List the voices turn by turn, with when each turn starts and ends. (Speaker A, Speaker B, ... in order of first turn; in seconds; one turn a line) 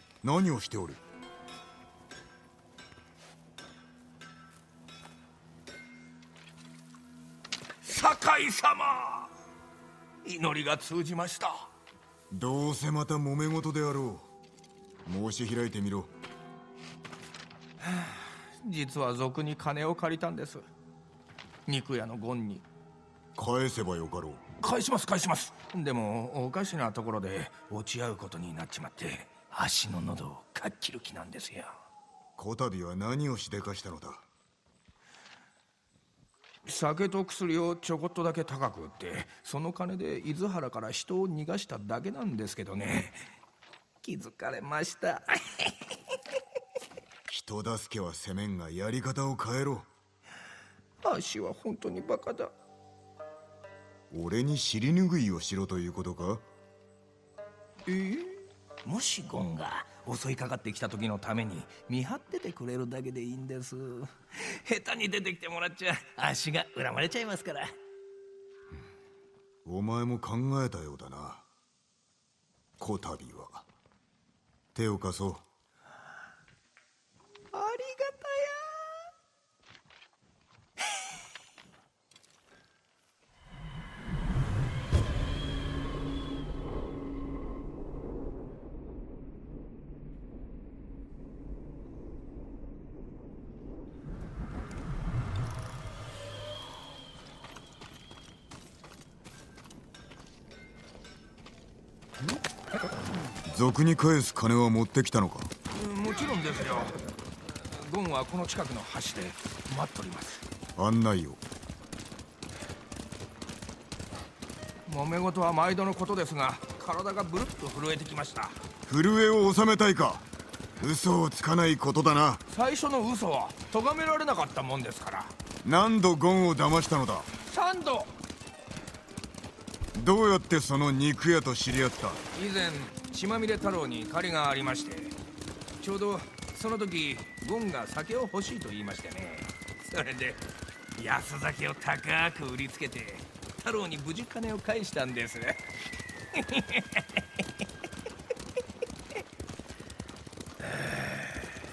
Speaker A: 0.2-1.0
Speaker B: 7.8-9.3
Speaker B: 10.2-11.7
Speaker A: 12.3-14.3
Speaker A: 15.0-16.1
Speaker B: 17.8-20.6
Speaker B: 21.7-22.6
Speaker A: 23.4-24.4
Speaker B: 24.6-31.7
Speaker A: 32.4-34.2
Speaker B: 36.6-43.2
Speaker B: 44.0-45.8
Speaker A: 47.3-49.9
Speaker B: 51.0-52.5
Speaker A: 54.1-56.4
Speaker B: 57.9-67.7
Speaker A: 69.6-71.5
Speaker A: 72.8-73.7
Speaker A: 74.7-75.4
Speaker B: 77.5-79.1
Speaker A: 103.5-105.5
Speaker B: 105.7-110.4
Speaker A: 110.8-111.4
Speaker B: 114.8-118.5
Speaker A: 118.9-120.2
Speaker A: 120.8-122.4
Speaker B: 122.5-125.3
Speaker A: 125.6-127.3
Speaker B: 127.4-128.1
Speaker A: 129.9-132.2
Speaker B: 132.3-135.1
Speaker B: 135.8-140.4
Speaker B: 140.9-145.6
Speaker B: 146.3-147.4